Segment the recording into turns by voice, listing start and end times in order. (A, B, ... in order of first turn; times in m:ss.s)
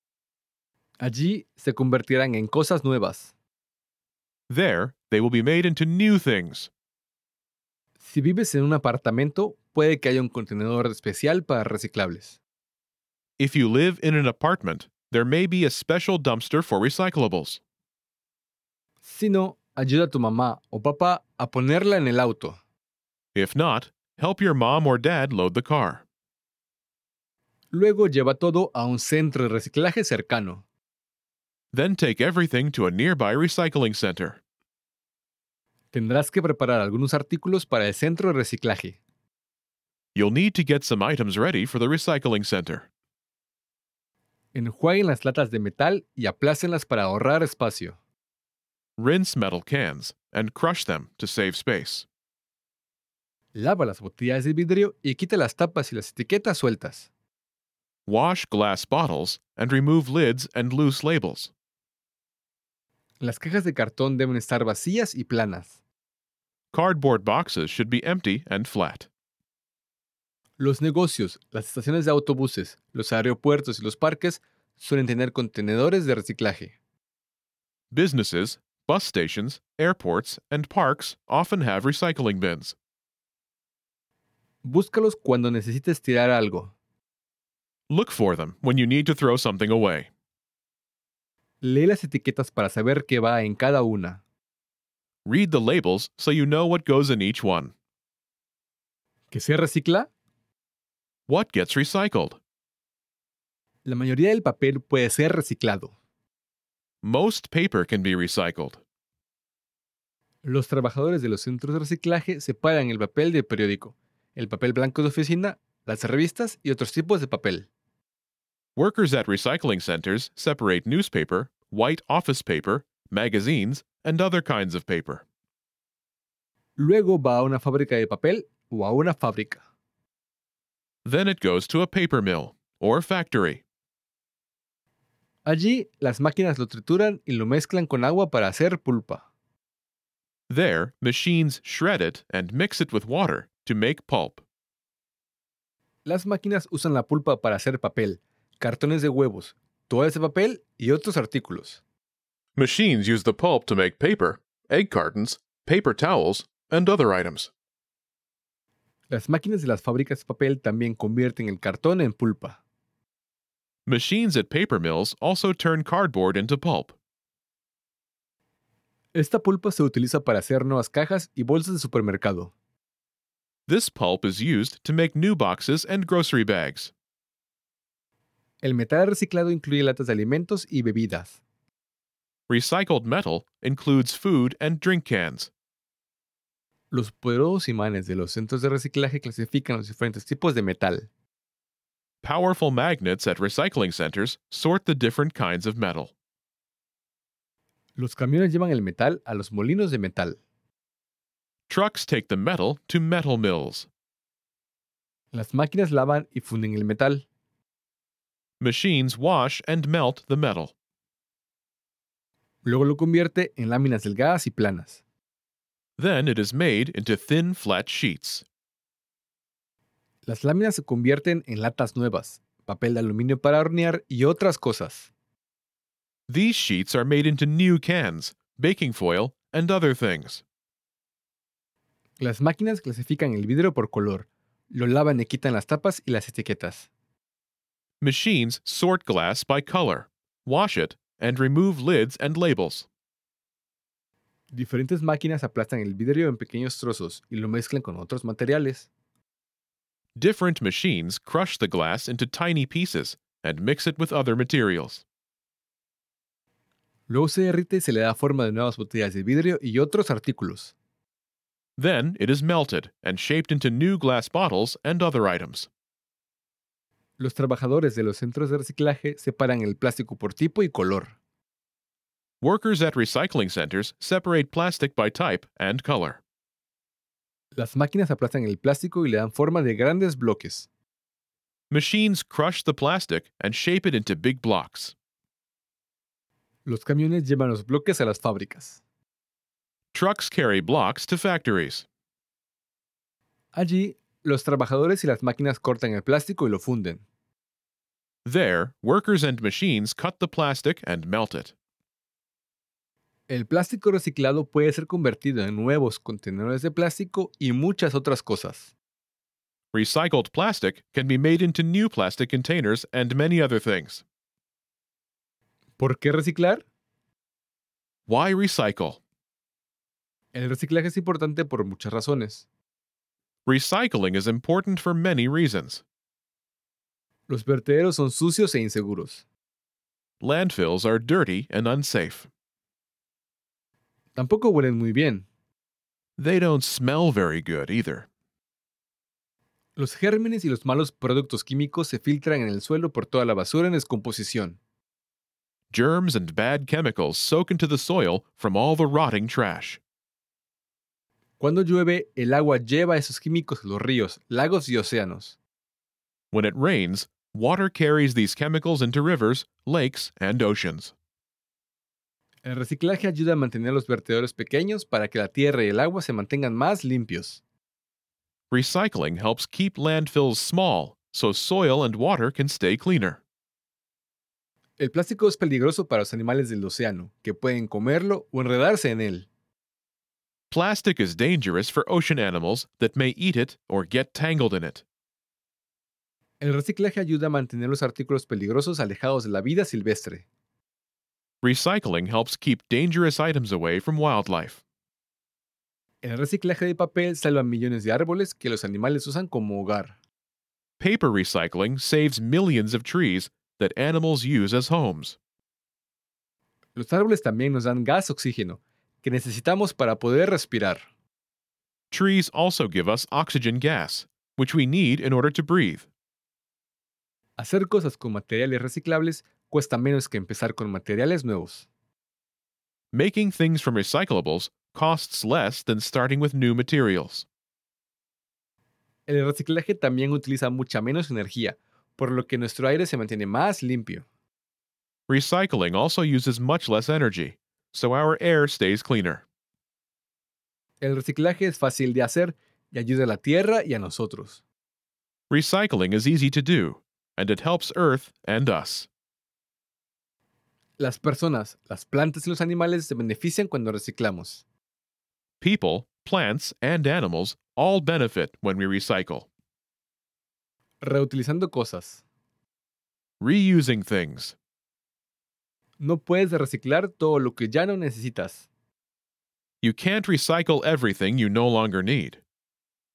0:01.0-0:03.3 A
0:04.5-0:06.7 B
0:08.0-0:12.4 A
0:13.4-0:17.6 B
0:19.0-0:22.6 A
0:23.4-0:26.0 B
0:27.7-0:30.6 A
0:31.7-0:34.4 B
0:35.9-0:39.0 A
0:40.2-0:42.9 B
0:44.5-0:48.0 A
0:49.0-0:52.1 B
0:53.5-0:57.1 A
0:58.1-1:01.5 B
1:03.2-1:05.8 A
1:06.7-1:09.1 B
1:10.6-1:16.8 A
1:17.9-1:22.8 B
1:24.6-1:26.7 A
1:27.9-1:30.1 B
1:31.6-1:34.2 A
1:35.2-1:37.7 B
1:39.3-1:40.1 A
1:41.3-1:42.4 B
1:43.8-1:46.0 A
1:47.0-1:48.8 B
1:50.4-1:57.7 A
1:58.8-2:05.2 B
2:06.8-2:09.6 A
2:11.0-2:13.6 B
2:15.5-2:19.2 A
2:20.5-2:24.4 B
2:26.0-2:31.8 A
2:32.6-2:37.5 B
2:39.1-2:42.6 A
2:43.9-2:47.0 B
2:49.1-2:52.5 A
2:53.7-2:56.9 B
2:58.6-3:01.4 A
3:02.5-3:05.5 B
3:06.9-3:11.1 A
3:12.2-3:16.1 B
3:18.0-3:20.4 A
3:21.7-3:23.9 B
3:25.3-3:27.2 A
3:28.6-3:30.7 B
3:32.6-3:35.0 A
3:36.0-3:38.4 B
3:40.3-3:45.1 A
3:46.3-3:50.4 B
3:52.2-3:56.9 A
3:58.0-4:02.9 B
4:04.5-4:08.9 A
4:10.2-4:15.0 B
4:17.1-4:20.8 A
4:21.8-4:25.7 B
4:27.2-4:31.2 A
4:32.4-4:36.2 B
4:37.6-4:40.7 A
4:41.7-4:45.0 B
4:46.7-4:48.8 A
4:49.9-4:51.9 B
4:53.5-4:57.0 A
4:58.2-5:01.5 B
5:03.3-5:08.7 A
5:09.7-5:14.0 B
5:15.8-5:16.6 A
5:18.1-5:19.0 B
5:20.3-5:22.5 A
5:23.5-5:25.8 B
5:27.3-5:29.2 A
5:30.2-5:32.3 B
5:34.2-5:35.3 A
5:36.2-5:38.1 B
5:39.8-5:44.6 A
5:45.7-5:49.8 B
5:51.4-5:55.4 A
5:56.3-6:00.9 B
6:02.4-6:07.4 A
6:08.5-6:13.2 B
6:14.8-6:19.3 A
6:20.5-6:24.8 B
6:26.4-6:30.3 A
6:31.4-6:34.6 B
6:36.0-6:40.0 A
6:40.8-6:45.2 B
6:46.8-6:50.9 A
6:51.9-6:55.9 B
6:57.4-7:01.7 A
7:02.9-7:07.3 B
7:09.1-7:14.0 A
7:15.1-7:19.2 B
7:20.8-7:24.4 A
7:25.3-7:28.9 B
7:30.8-7:34.4 A
7:35.4-7:39.3 B
7:40.8-7:42.0 A
7:43.2-7:44.4 B
7:45.8-7:48.5 A
7:49.6-7:52.2 B